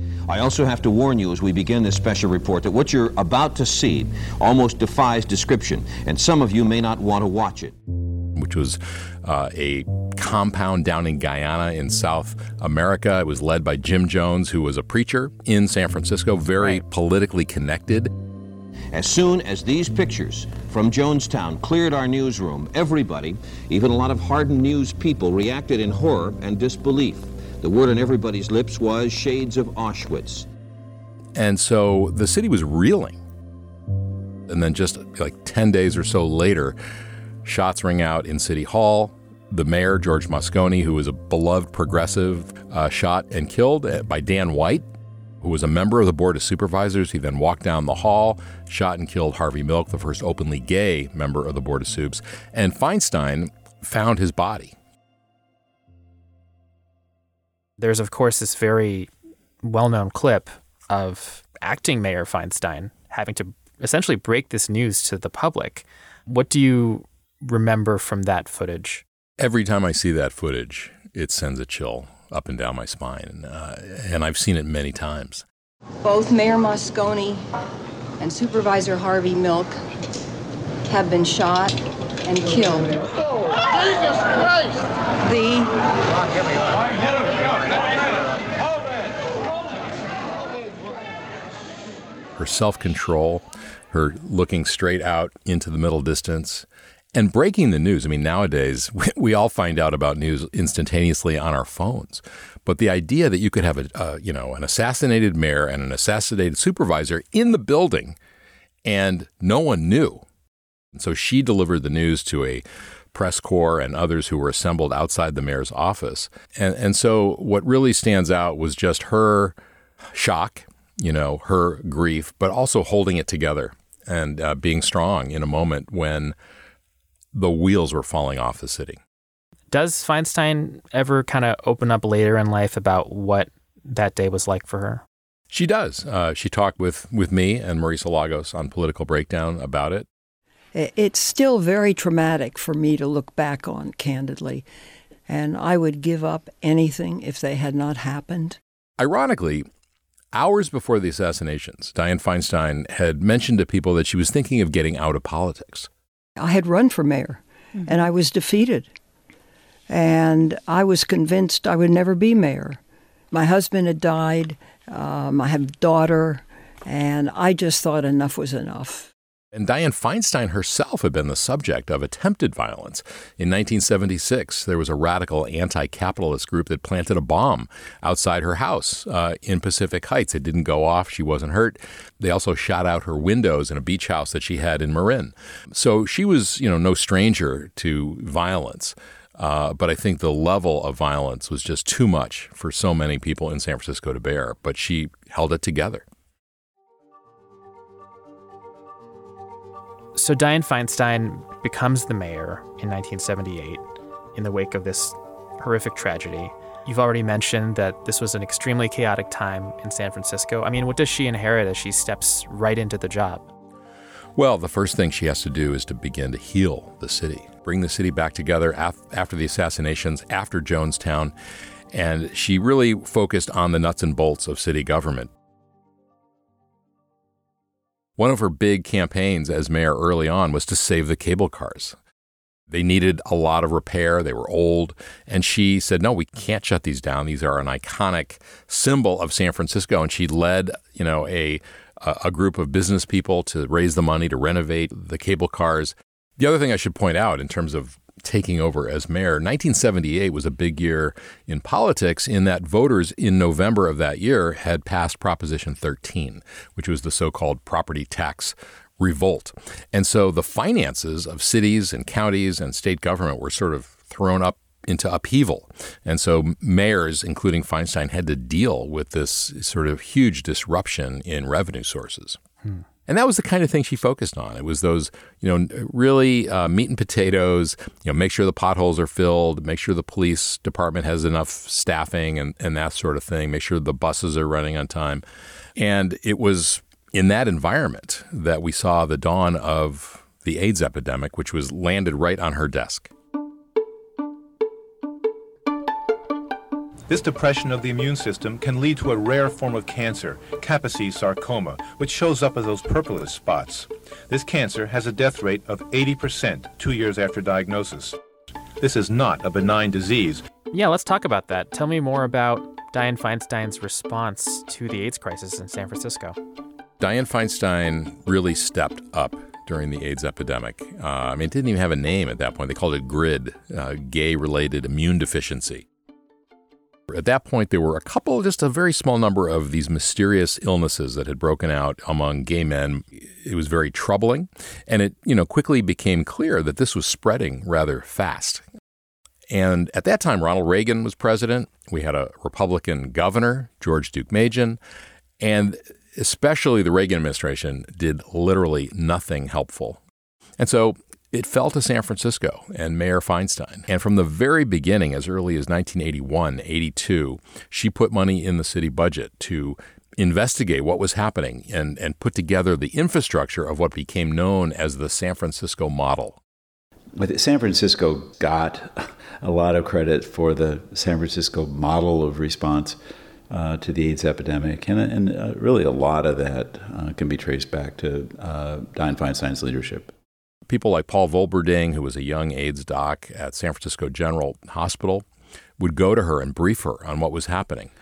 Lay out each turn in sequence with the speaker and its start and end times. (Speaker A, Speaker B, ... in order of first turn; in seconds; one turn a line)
Speaker A: 0.3-7.7
Speaker B: 8.3-18.1
Speaker A: 18.9-30.5
Speaker B: 31.4-33.2
Speaker B: 34.5-36.8
Speaker B: 37.4-44.8
Speaker B: 45.4-54.7
Speaker C: 57.8-59.1
Speaker C: 59.6-69.0
Speaker B: 69.4-75.4
Speaker D: 76.0-77.4
Speaker D: 78.2-79.7
Speaker D: 80.8-83.0
Speaker D: 85.2-85.7
Speaker B: 92.3-108.2
Speaker B: 108.8-110.2
Speaker B: 110.9-112.6
Speaker B: 113.1-119.5
Speaker B: 120.1-126.3
Speaker B: 127.3-129.0
Speaker C: 129.7-135.0
Speaker B: 135.5-140.1
Speaker E: 140.7-144.7
Speaker E: 145.3-148.6
Speaker B: 149.0-149.7
Speaker B: 150.3-155.9
Speaker E: 156.4-158.9
Speaker E: 159.9-162.8
Speaker E: 163.3-169.1
Speaker B: 169.5-196.0
Speaker C: 200.2-203.8
Speaker C: 204.3-213.5
Speaker B: 214.3-221.3
Speaker B: 221.9-225.3
Speaker B: 228.2-231.9
Speaker B: 232.7-272.4
Speaker B: 273.1-285.2
Speaker B: 285.8-293.1
Speaker F: 297.1-308.2
Speaker F: 308.8-310.4
Speaker C: 310.7-316.4
Speaker B: 317.0-325.8
Speaker B: 327.1-338.6
Speaker B: 339.5-344.8
Speaker B: 345.4-350.0
Speaker B: 350.6-366.4
Speaker G: 367.2-373.0
Speaker G: 373.5-380.1
Speaker B: 380.7-385.2
Speaker B: 385.8-387.9